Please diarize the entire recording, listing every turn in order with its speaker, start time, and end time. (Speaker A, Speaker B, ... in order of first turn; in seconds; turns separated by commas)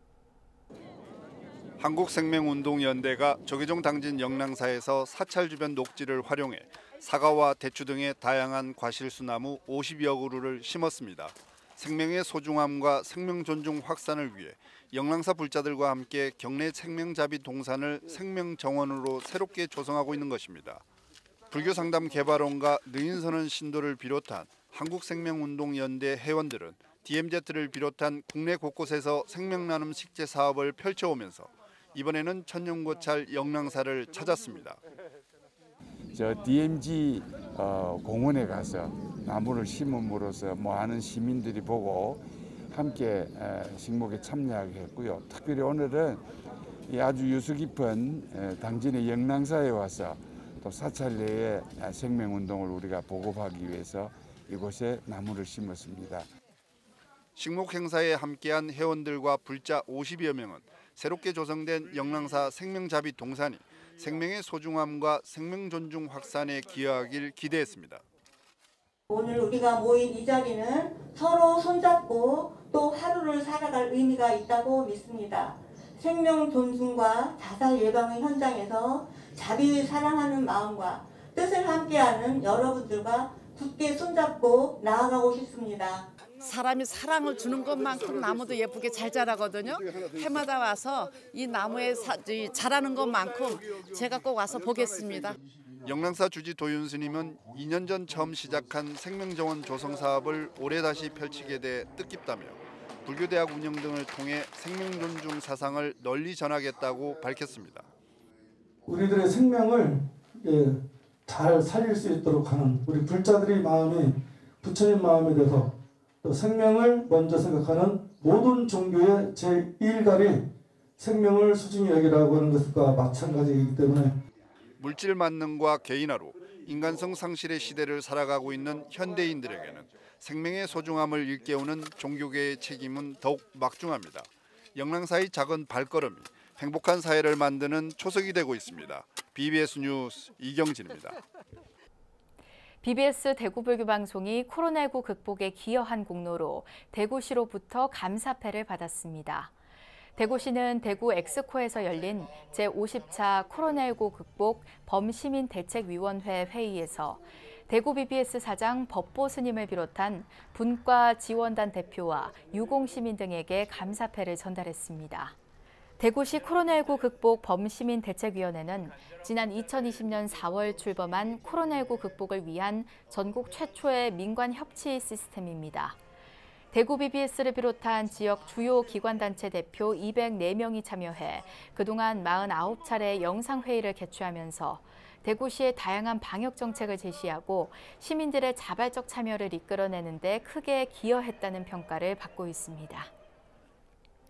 Speaker A: 1.8-20.8, Speaker A: 21.5-34.8, Speaker B: 36.1-46.2, Speaker B: 46.9-56.3, Speaker A: 57.4-68.0, Speaker C: 69.1-86.1, Speaker D: 86.4-95.4, Speaker A: 95.8-107.9, Speaker E: 108.8-120.4, Speaker E: 121.0-124.2, Speaker A: 124.8-141.2, Speaker F: 142.8-149.5, Speaker F: 150.2-165.3, Speaker F: 166.0-176.0, Speaker F: 176.7-193.1